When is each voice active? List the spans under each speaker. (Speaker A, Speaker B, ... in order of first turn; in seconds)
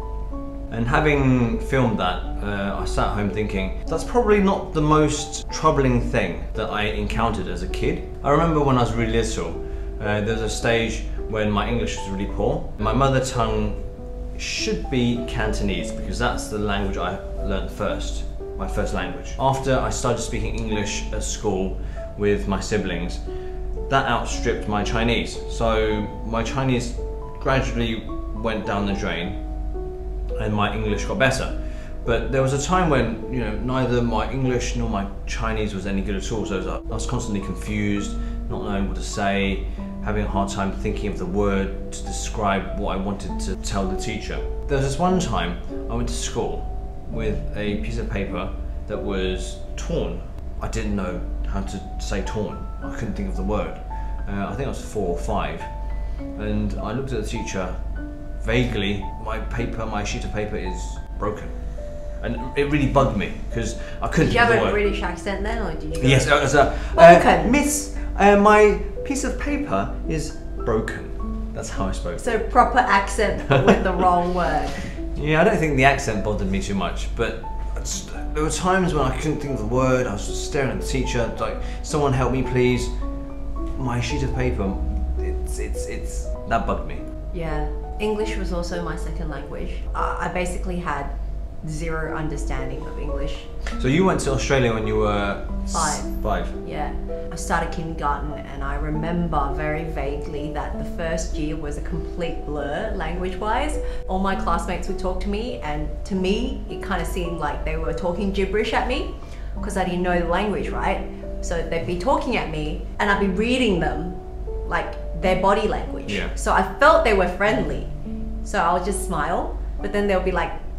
Speaker A: 0.7-13.8, 14.3-23.2, 23.9-29.4, 30.4-55.7, 56.3-57.8, 58.4-64.8, 66.0-72.2, 75.0-82.9, 83.8-87.0, 93.8-96.6, 116.1-116.3
Speaker B: 64.2-67.5, 72.2-74.8, 87.3-91.1, 91.6-93.5, 95.7-117.9, 118.4-120.5